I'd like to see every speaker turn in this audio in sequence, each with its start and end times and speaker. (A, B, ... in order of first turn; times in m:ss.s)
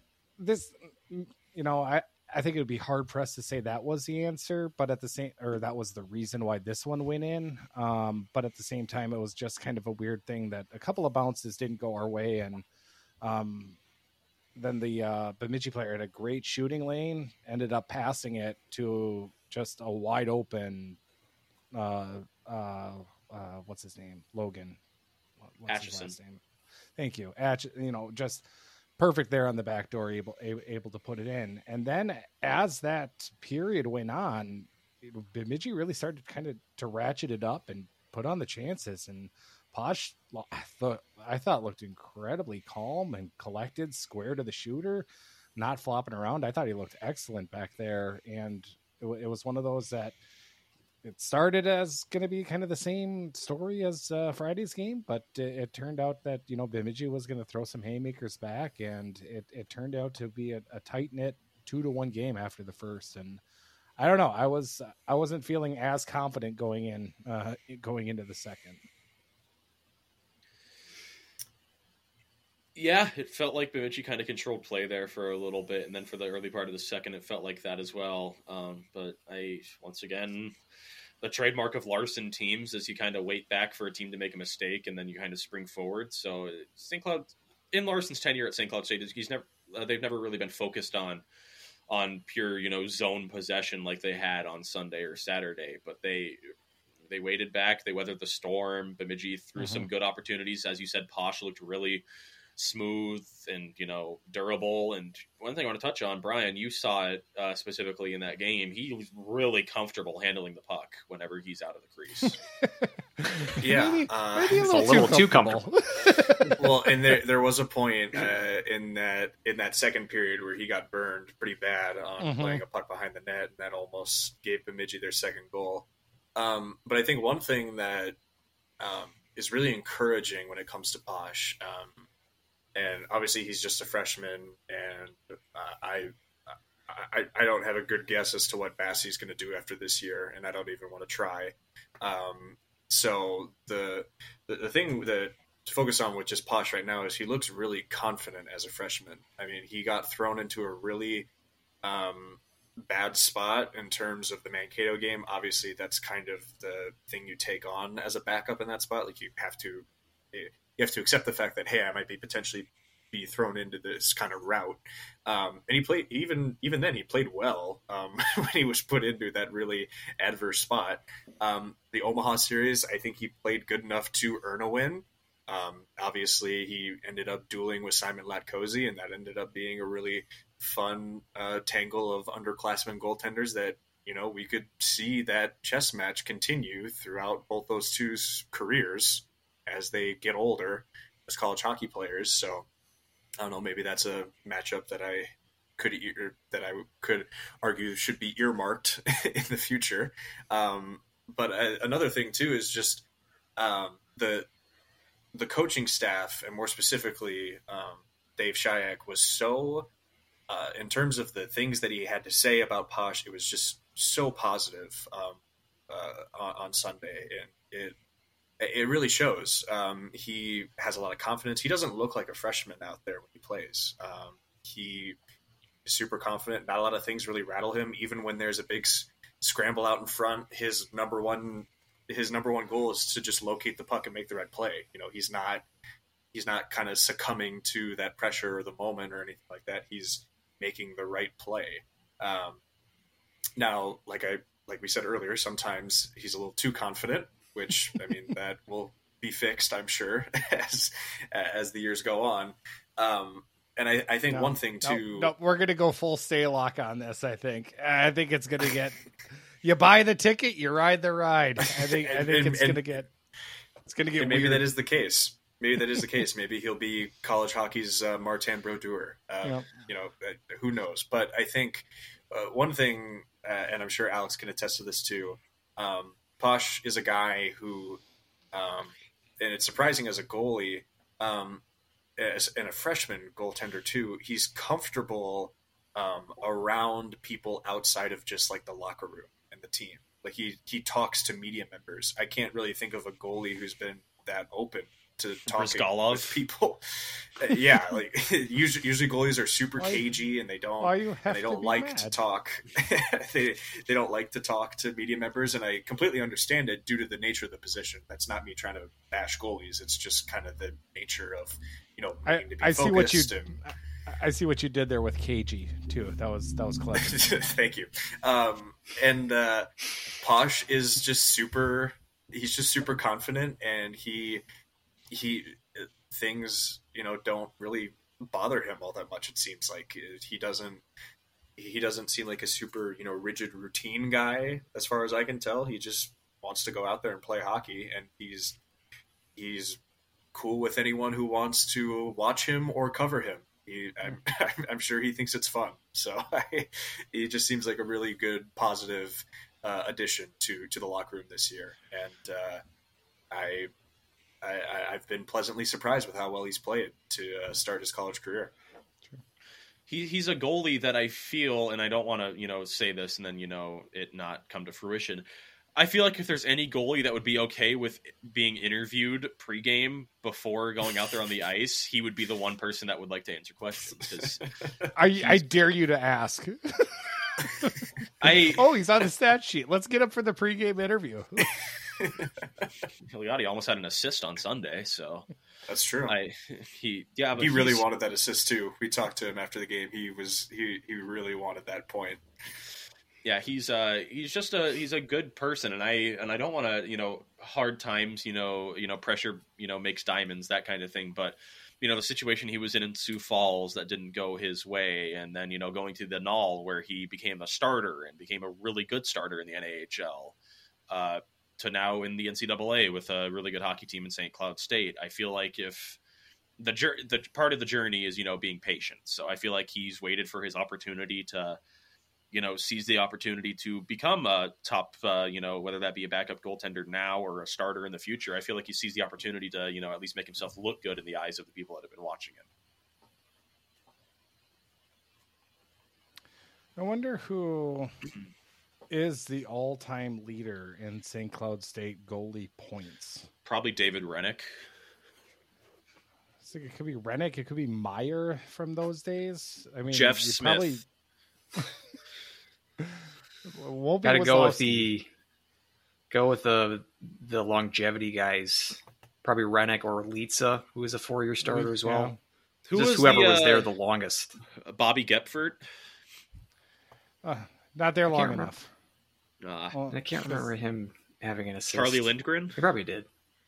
0:00.4-0:12.6 A
0:13.2-0:13.8 A
0:14.6-0:21.0 A
0:21.7-0:24.8 A
0:25.4-0:26.4 A
0:25.7-0:26.2 B
0:27.0-0:28.5 A
0:29.0-0:50.2 A
0:51.0-1:03.4 A
1:04.0-1:08.8 A
1:12.8-1:20.6 B
1:21.2-1:31.2 B
1:31.9-1:36.4 B
1:37.1-1:42.0 B
1:39.6-1:39.9 A
1:42.6-1:52.4 B
1:52.6-1:56.9 A
1:53.6-1:55.1 C
1:54.6-1:55.6 D
1:56.6-2:08.2 C
2:02.2-2:02.6 A
2:08.8-2:12.1 C
2:12.8-2:16.1 C
2:16.9-2:31.3 C
2:31.8-3:12.7 C
3:13.4-3:23.0 C
3:23.6-3:24.5 C
3:25.4-3:29.9 C
3:30.5-3:38.0 C
3:38.6-3:45.2 C
3:45.8-3:55.7 C
3:56.3-4:02.6 C
4:03.6-4:15.3 C
4:14.3-4:19.0 A
4:19.6-4:23.1 A
4:21.6-4:22.8 C
4:23.8-4:24.7 A
4:24.2-4:38.0 C
4:29.4-4:29.8 A
4:38.5-4:41.6 C
4:42.2-5:13.6 C
4:55.5-4:56.4 B
4:59.8-5:00.0 A
5:00.8-5:02.2 A
5:12.3-5:17.2 A
5:17.0-5:19.7 C
5:20.2-5:24.4 C
5:25.1-5:30.8 C
5:31.6-5:38.6 C
5:39.4-5:39.8 C
5:40.3-5:52.6 C
5:53.3-5:53.7 C
5:54.4-5:58.5 C
5:59.9-6:05.2 B
6:05.8-6:14.5 B
6:14.9-6:17.7 A
6:18.2-6:18.6 B
6:18.6-6:21.5 A
6:22.0-6:22.3 C
6:23.1-6:25.3 B
6:25.7-6:26.2 C
6:26.1-6:27.8 B
6:27.4-6:32.2 C
6:33.2-6:50.4 B
6:50.9-6:56.0 B
6:56.6-7:01.6 B
7:02.3-7:12.4 B
7:16.8-7:17.9 A
7:18.9-7:23.3 A
7:23.4-7:24.5 B
7:26.4-7:30.8 A
7:29.9-7:30.8 B
7:33.5-7:34.9 A
7:34.0-7:35.1 D
7:36.1-7:42.1 D
7:41.4-7:42.2 A
7:42.7-7:43.7 B
7:42.8-7:44.4 D
7:44.6-7:45.6 B
7:47.2-7:48.7 A
7:48.1-7:48.5 D
7:49.4-7:49.8 B
7:49.7-7:50.4 A
7:49.9-7:53.1 D
7:51.7-7:52.6 B